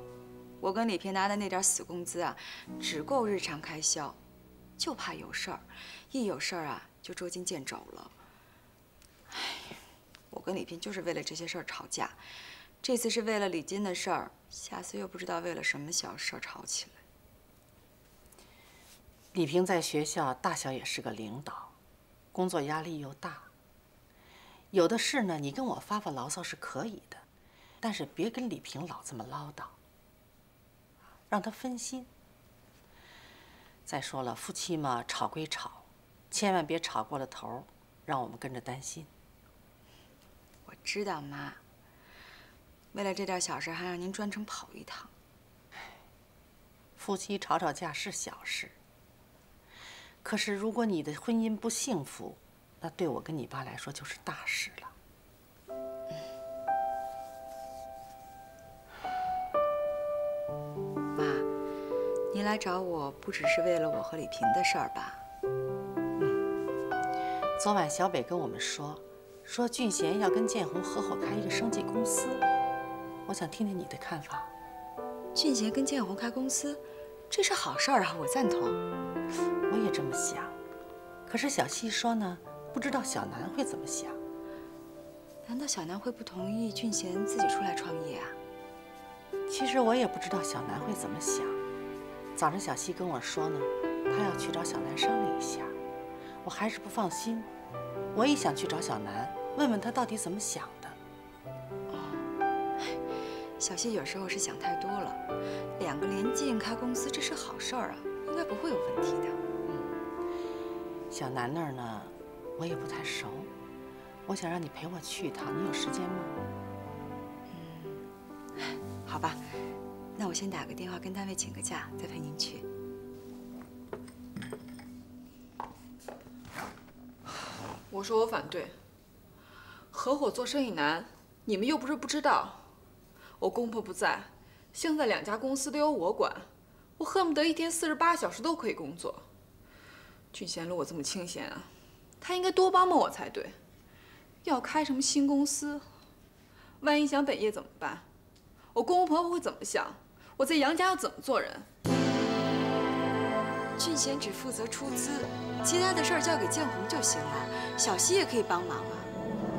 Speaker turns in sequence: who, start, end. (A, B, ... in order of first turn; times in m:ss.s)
0:00.6-0:04.2 A
0:04.8-0:08.2 A
0:09.3-0:09.6 A
0:10.3-0:12.2 A
0:12.8-0:17.0 A
0:19.3-0:21.7 B
0:22.3-0:23.5 B
0:24.7-0:27.2 B
0:27.8-0:29.7 B
0:31.3-0:32.1 B
0:33.9-0:39.1 B
0:40.7-0:41.6 A
0:42.9-0:45.1 A
0:47.0-0:48.8 B
0:50.2-0:54.9 B
1:01.2-1:01.5 A
1:02.3-1:05.2 A
1:07.6-1:12.4 B
1:13.3-1:14.5 B
1:15.4-1:18.8 A
1:19.7-1:20.6 B
1:21.3-1:24.2 B
1:25.4-1:28.4 A
1:29.5-1:31.6 B
1:32.4-1:35.7 B
1:36.4-1:37.5 B
1:38.1-1:41.0 B
1:41.9-1:42.2 A
1:43.6-1:45.2 A
1:45.8-1:49.4 A
1:49.7-1:49.9 B
1:51.1-1:53.5 B
1:54.3-1:56.4 B
1:57.5-1:58.0 A
1:58.7-1:59.6 A
2:00.2-2:02.7 A
2:07.9-2:08.8 C
2:09.9-2:12.6 C
2:13.4-2:19.2 C
2:20.3-2:21.7 C
2:22.2-2:23.6 C
2:24.4-2:25.8 C
2:26.8-2:28.1 C
2:28.7-2:31.7 C
2:33.8-2:39.1 A